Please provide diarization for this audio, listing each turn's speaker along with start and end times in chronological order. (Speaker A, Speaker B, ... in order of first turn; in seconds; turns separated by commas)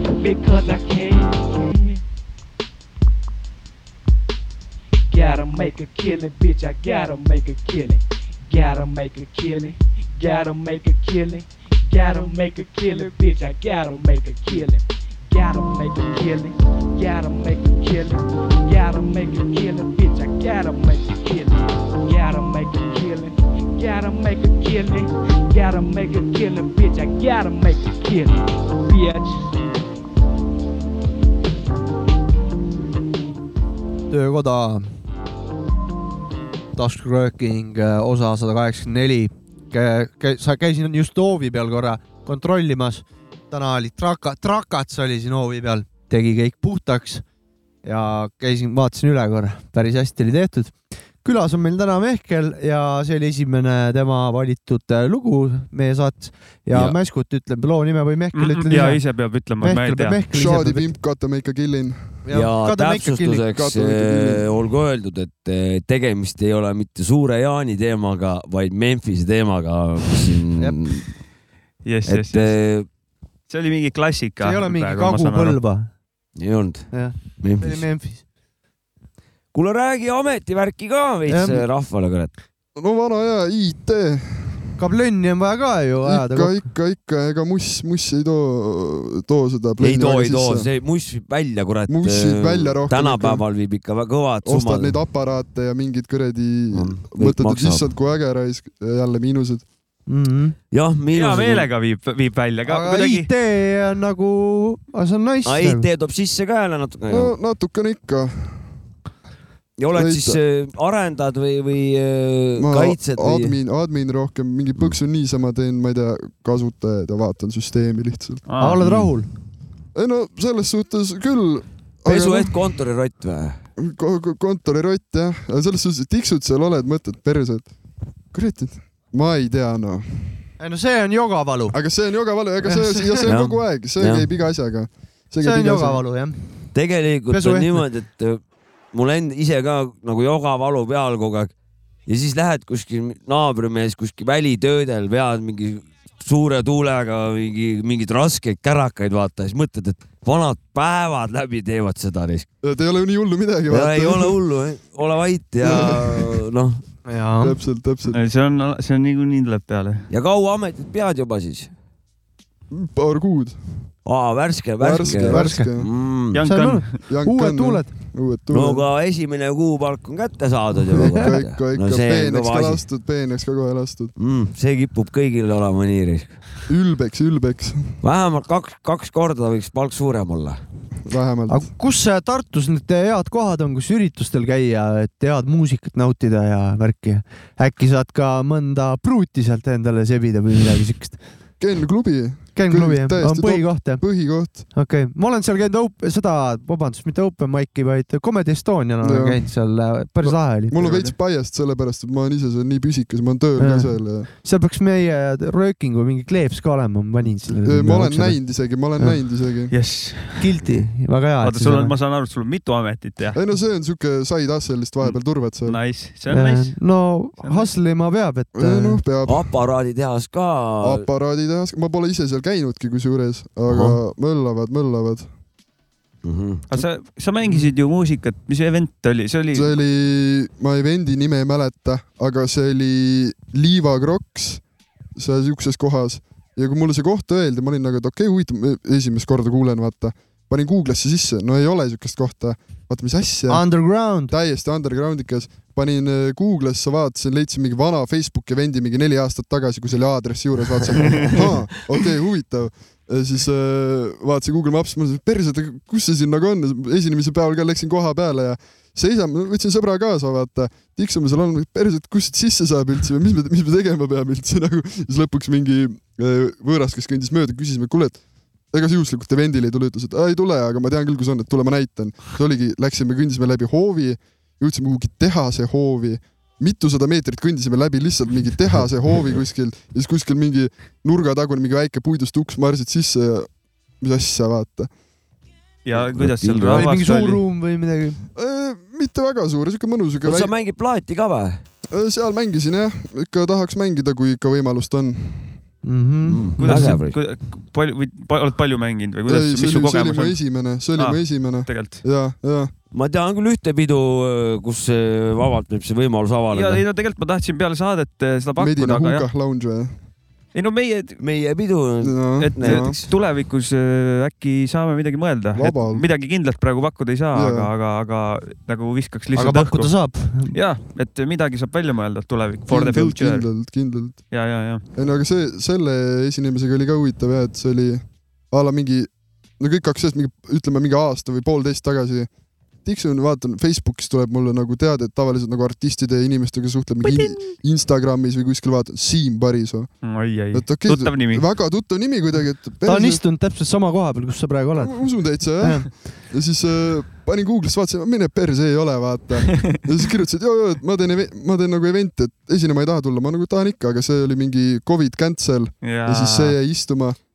Speaker A: 0.2-2.0, Speaker A: 5.1-29.5, Speaker B: 34.1-34.9, Speaker B: 36.8-47.2, Speaker B: 47.8-59.0, Speaker C: 58.3-60.2, Speaker B: 59.6-60.9, Speaker D: 60.3-62.2, Speaker B: 62.2-63.4, Speaker E: 62.3-71.1, Speaker D: 63.5-64.5, Speaker C: 71.8-72.5, Speaker E: 72.1-72.9, Speaker C: 73.5-75.6, Speaker B: 74.4-75.9, Speaker E: 76.4-77.8, Speaker B: 76.9-78.2, Speaker E: 79.5-82.3, Speaker B: 81.3-81.6, Speaker D: 82.7-84.8, Speaker B: 84.8-86.7, Speaker D: 86.0-90.7, Speaker E: 89.8-94.9, Speaker D: 91.9-93.4, Speaker D: 94.4-99.6, Speaker E: 96.7-97.8, Speaker B: 100.1-100.5, Speaker E: 100.7-101.7, Speaker C: 101.1-103.3, Speaker B: 102.7-105.8, Speaker E: 105.4-107.3, Speaker D: 107.1-108.7, Speaker E: 109.8-113.5, Speaker D: 109.9-110.4, Speaker D: 112.6-118.4, Speaker C: 118.5-119.0, Speaker B: 118.6-119.3, Speaker D: 119.9-122.6, Speaker E: 122.1-123.6, Speaker D: 123.8-127.7, Speaker D: 128.3-130.4, Speaker B: 130.6-131.8, Speaker D: 131.7-136.0, Speaker B: 132.6-133.2, Speaker E: 133.3-134.3, Speaker B: 135.4-136.4, Speaker E: 136.7-138.4, Speaker B: 137.3-137.8, Speaker E: 138.9-141.5, Speaker E: 142.1-152.5, Speaker D: 152.6-154.3, Speaker E: 153.7-156.8, Speaker D: 155.6-156.4, Speaker B: 157.1-157.6, Speaker D: 157.4-158.2, Speaker C: 158.1-160.1, Speaker E: 160.1-161.7, Speaker D: 162.7-163.6, Speaker E: 164.0-166.4, Speaker D: 164.8-165.9, Speaker B: 165.3-165.7, Speaker C: 166.3-167.0, Speaker B: 166.3-167.9, Speaker D: 167.1-168.8, Speaker E: 168.5-172.8, Speaker D: 170.9-174.1, Speaker B: 170.9-171.2, Speaker E: 174.2-176.4, Speaker D: 176.7-178.0, Speaker E: 178.0-180.6, Speaker D: 181.1-181.7, Speaker B: 181.5-191.2, Speaker D: 191.6-194.6, Speaker B: 192.5-200.8, Speaker D: 199.0-199.5, Speaker D: 200.2-204.3, Speaker C: 200.8-201.1, Speaker B: 203.6-209.2, Speaker D: 207.6-209.7, Speaker C: 209.7-210.5, Speaker B: 210.4-211.9, Speaker C: 211.4-213.4, Speaker D: 213.3-215.8, Speaker C: 215.0-216.8, Speaker B: 216.3-219.0, Speaker C: 217.4-217.7, Speaker D: 218.5-219.5, Speaker E: 219.2-221.0, Speaker D: 220.8-225.3, Speaker E: 223.7-224.0, Speaker E: 226.2-226.6, Speaker C: 226.7-229.7, Speaker D: 229.5-234.6, Speaker D: 235.2-268.2, Speaker B: 243.5-244.3, Speaker D: 268.7-284.9, Speaker C: 285.8-287.4, Speaker E: 285.9-286.9, Speaker B: 286.7-288.2, Speaker D: 288.3-290.5, Speaker E: 290.2-291.6, Speaker D: 291.9-295.6, Speaker B: 295.8-297.0, Speaker E: 296.2-297.2, Speaker C: 296.6-300.4, Speaker D: 299.3-302.7, Speaker C: 300.9-302.0, Speaker E: 302.9-306.8, Speaker C: 306.5-309.2, Speaker D: 308.6-309.9, Speaker C: 310.5-311.2, Speaker E: 311.2-313.1, Speaker D: 312.0-313.0, Speaker C: 312.4-323.5, Speaker D: 315.5-316.0, Speaker D: 317.3-317.7, Speaker B: 319.3-320.5, Speaker D: 322.7-324.3, Speaker C: 324.3-324.8, Speaker D: 324.9-332.3, Speaker D: 332.8-339.9, Speaker C: 340.0-341.4, Speaker D: 340.5-343.2, Speaker B: 342.8-345.9, Speaker D: 344.8-357.2, Speaker C: 355.8-356.5